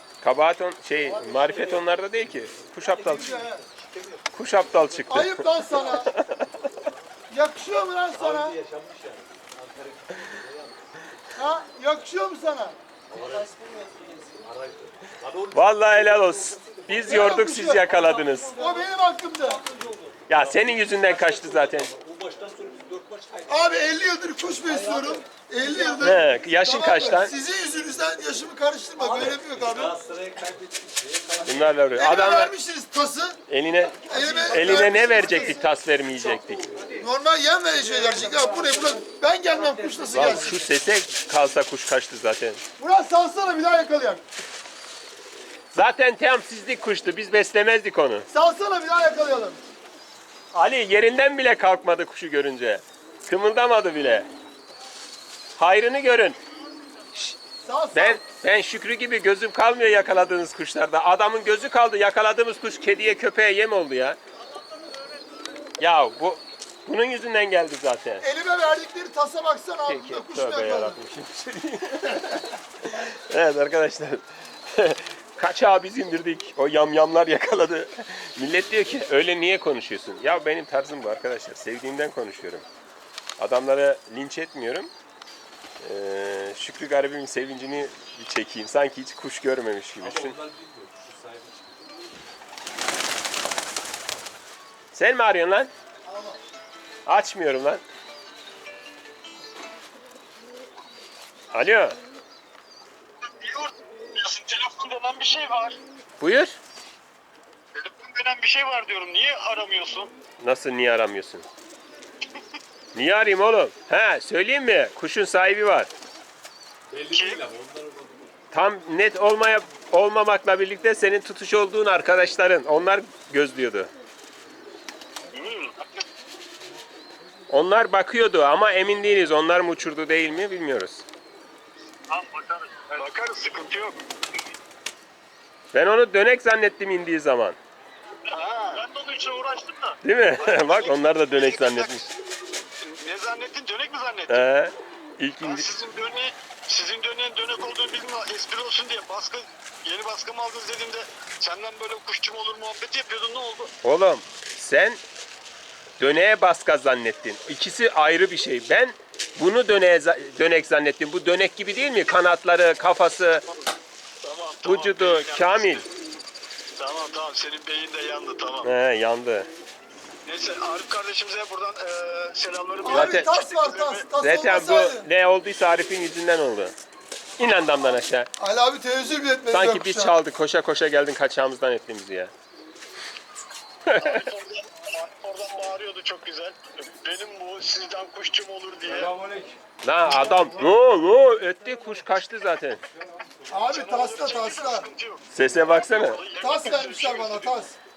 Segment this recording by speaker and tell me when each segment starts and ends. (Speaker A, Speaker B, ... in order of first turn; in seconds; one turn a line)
Speaker A: 0.2-3.5
Speaker B: 1.0-7.1
Speaker C: 2.9-3.6
Speaker A: 4.3-6.5
Speaker C: 5.1-6.1
Speaker C: 7.3-8.6
Speaker B: 8.0-10.9
Speaker C: 11.3-12.8
Speaker B: 13.1-18.9
Speaker A: 15.5-18.6
Speaker C: 17.0-19.6
Speaker B: 19.4-23.8
Speaker A: 20.3-21.9
Speaker C: 23.5-30.0
Speaker B: 24.5-26.1
Speaker A: 26.0-27.3
Speaker B: 29.0-32.4
Speaker A: 31.4-32.5
Speaker C: 31.9-33.4
Speaker A: 33.5-36.7
Speaker B: 34.0-35.5
Speaker C: 34.0-35.6
Speaker B: 36.1-37.0
Speaker C: 37.0-40.6
Speaker B: 40.1-40.4
Speaker A: 40.1-42.6
Speaker C: 42.8-44.2
Speaker A: 45.7-48.3
Speaker C: 48.3-49.6
Speaker A: 50.5-54.3
Speaker A: 55.5-56.4
Speaker C: 57.6-58.2
Speaker A: 57.9-64.2
Speaker A: 65.8-68.2
Speaker C: 68.2-71.0
Speaker A: 69.9-82.6
Speaker A: 83.4-84.9
Speaker A: 85.8-90.3
Speaker B: 89.9-92.0
Speaker A: 94.9-95.7
Speaker C: 96.0-96.4
Speaker A: 97.0-97.8
Speaker A: 101.5-102.0
Speaker D: 103.2-105.8
Speaker A: 106.2-106.6
Speaker D: 107.7-110.1
Speaker A: 110.4-111.5
Speaker A: 112.9-115.9
Speaker B: 116.9-118.4
Speaker D: 117.1-117.4
Speaker A: 118.5-123.9
Speaker D: 125.3-126.0
Speaker A: 127.5-131.0
Speaker D: 132.1-134.0
Speaker A: 135.7-137.6
Speaker D: 138.3-141.9
Speaker A: 140.0-142.1
Speaker D: 142.8-144.4
Speaker A: 144.3-145.8
Speaker D: 145.4-153.7
Speaker A: 153.8-155.0
Speaker A: 156.0-163.4
Speaker D: 164.2-165.8
Speaker A: 164.6-165.8
Speaker D: 166.8-168.7
Speaker A: 168.6-169.5
Speaker D: 170.2-174.0
Speaker C: 172.8-175.1
Speaker A: 172.9-173.3
Speaker A: 174.2-176.8
Speaker A: 177.4-178.3
Speaker C: 178.4-180.2
Speaker A: 179.5-182.3
Speaker A: 183.8-184.3
Speaker D: 183.9-189.1
Speaker B: 188.9-189.6
Speaker A: 189.8-192.8
Speaker C: 190.1-190.7
Speaker C: 193.5-194.9
Speaker D: 193.7-197.6
Speaker A: 195.3-196.2
Speaker C: 196.4-197.8